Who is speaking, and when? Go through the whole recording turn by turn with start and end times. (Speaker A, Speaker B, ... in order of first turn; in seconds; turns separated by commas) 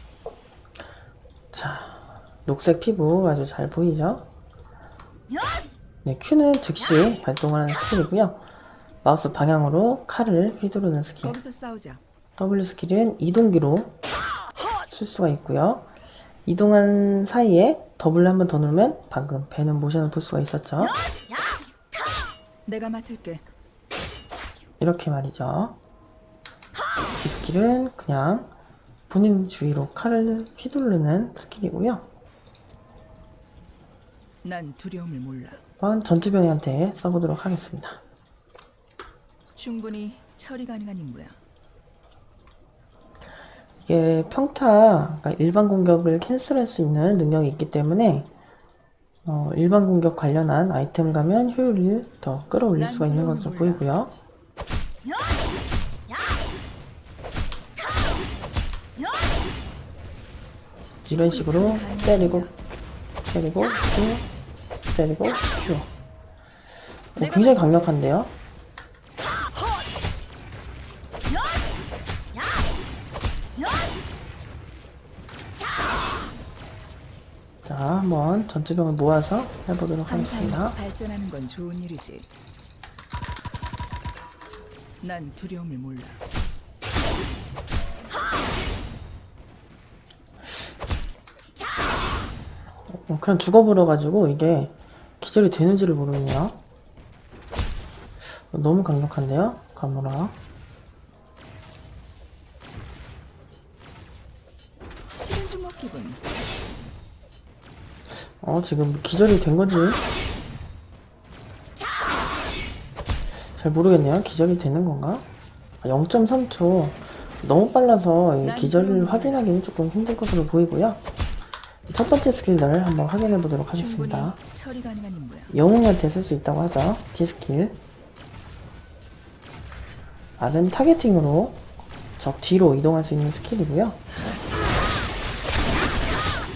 Speaker A: 1.5-4.3, Speaker A: 6.0-8.4, Speaker A: 9.0-11.4, Speaker B: 11.2-12.0, Speaker A: 12.4-13.9, Speaker A: 14.9-15.9, Speaker A: 16.5-20.9, Speaker B: 22.7-23.4, Speaker A: 24.8-25.8, Speaker A: 27.2-28.5, Speaker A: 29.1-32.1, Speaker B: 34.4-35.6, Speaker A: 35.8-38.0, Speaker B: 39.6-41.4, Speaker A: 43.8-48.3, Speaker A: 49.2-54.1, Speaker B: 52.8-53.9, Speaker A: 61.1-62.5, Speaker B: 61.1-62.5, Speaker A: 63.3-64.3, Speaker A: 64.9-65.9, Speaker A: 67.2-68.3, Speaker B: 67.2-67.9, Speaker A: 77.7-80.8, Speaker B: 80.1-82.3, Speaker B: 85.0-86.2, Speaker A: 92.9-96.6, Speaker A: 98.2-100.4, Speaker B: 105.1-106.2, Speaker A: 108.4-110.0, Speaker A: 113.5-115.3, Speaker A: 115.8-121.0, Speaker B: 118.4-119.5, Speaker A: 121.9-124.4, Speaker B: 123.7-125.5, Speaker A: 125.5-127.8, Speaker A: 130.4-131.6, Speaker A: 132.2-134.0